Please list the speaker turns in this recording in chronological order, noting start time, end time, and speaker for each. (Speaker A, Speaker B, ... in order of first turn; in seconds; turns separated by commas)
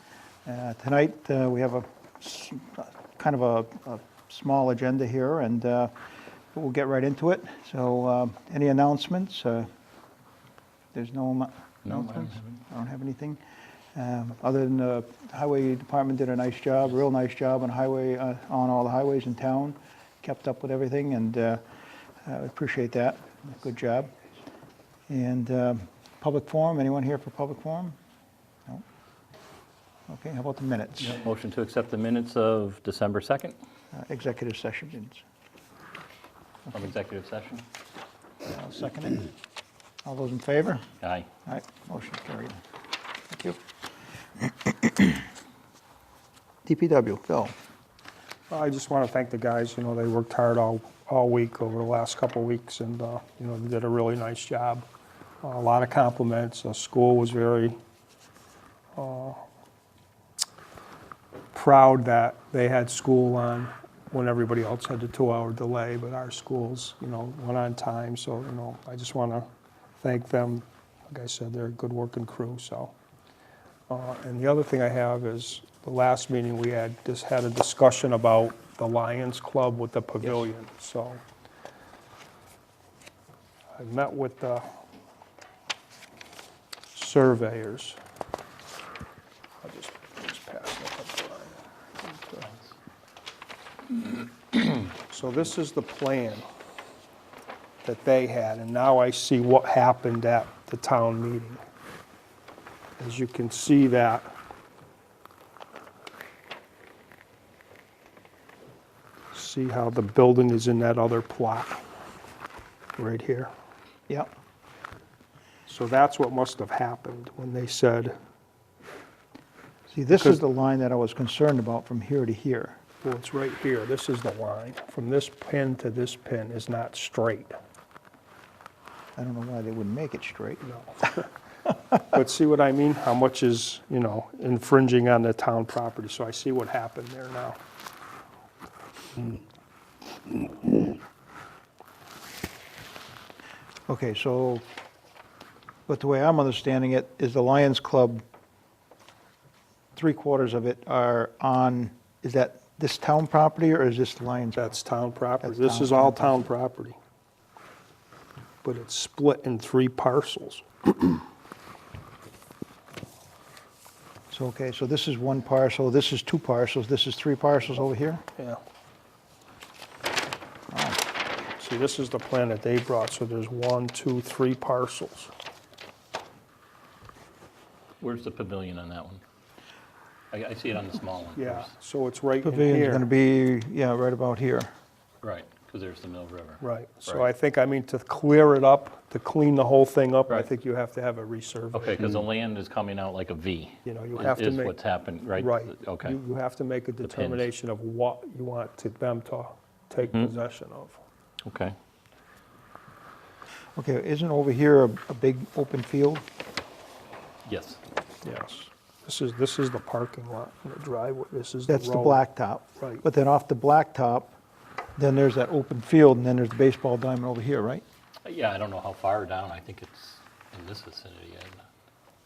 Speaker A: 0.4-5.9, Speaker A: 6.5-9.7, Speaker A: 10.9-13.4, Speaker B: 11.9-12.6, Speaker A: 13.9-21.6, Speaker A: 22.2-24.1, Speaker A: 25.1-28.0, Speaker A: 30.1-31.2, Speaker B: 31.0-33.5, Speaker A: 33.9-35.2, Speaker B: 36.7-37.6, Speaker A: 38.5-39.3, Speaker A: 40.0-40.9, Speaker B: 41.0-41.3, Speaker A: 41.5-42.6, Speaker A: 43.3-43.6, Speaker A: 44.6-45.1, Speaker A: 46.6-47.5, Speaker C: 48.5-54.8, Speaker C: 55.4-57.7, Speaker C: 58.9-59.4, Speaker C: 61.5-69.5, Speaker C: 70.0-72.9, Speaker C: 73.9-81.2, Speaker A: 80.2-80.5, Speaker C: 83.7-84.7, Speaker C: 86.9-88.0, Speaker C: 89.6-92.5, Speaker C: 94.9-96.4, Speaker C: 97.8-101.6, Speaker C: 103.0-104.3, Speaker C: 109.3-111.8, Speaker C: 113.0-113.5, Speaker C: 115.7-118.1, Speaker A: 119.9-122.8, Speaker C: 120.1-120.4, Speaker C: 123.0-127.5, Speaker A: 129.2-130.6, Speaker C: 130.6-131.3, Speaker C: 132.1-137.6, Speaker A: 143.9-144.7, Speaker A: 145.9-148.2, Speaker A: 149.9-154.8, Speaker C: 154.6-157.0, Speaker A: 155.4-156.5, Speaker C: 158.6-161.2, Speaker A: 164.3-168.2, Speaker A: 170.7-171.0, Speaker C: 171.6-175.3, Speaker B: 178.0-179.2, Speaker B: 180.3-181.7, Speaker C: 181.3-183.1, Speaker A: 182.4-184.7, Speaker B: 185.2-187.2, Speaker C: 186.6-192.1, Speaker B: 191.7-196.2, Speaker C: 193.8-194.7, Speaker C: 195.3-201.0, Speaker B: 197.0-197.5, Speaker B: 200.0-200.3, Speaker B: 201.4-201.7, Speaker A: 203.8-206.2, Speaker B: 207.4-207.8, Speaker C: 208.2-212.2, Speaker A: 211.7-214.3, Speaker C: 212.8-213.0, Speaker A: 215.0-217.8, Speaker B: 218.2-221.6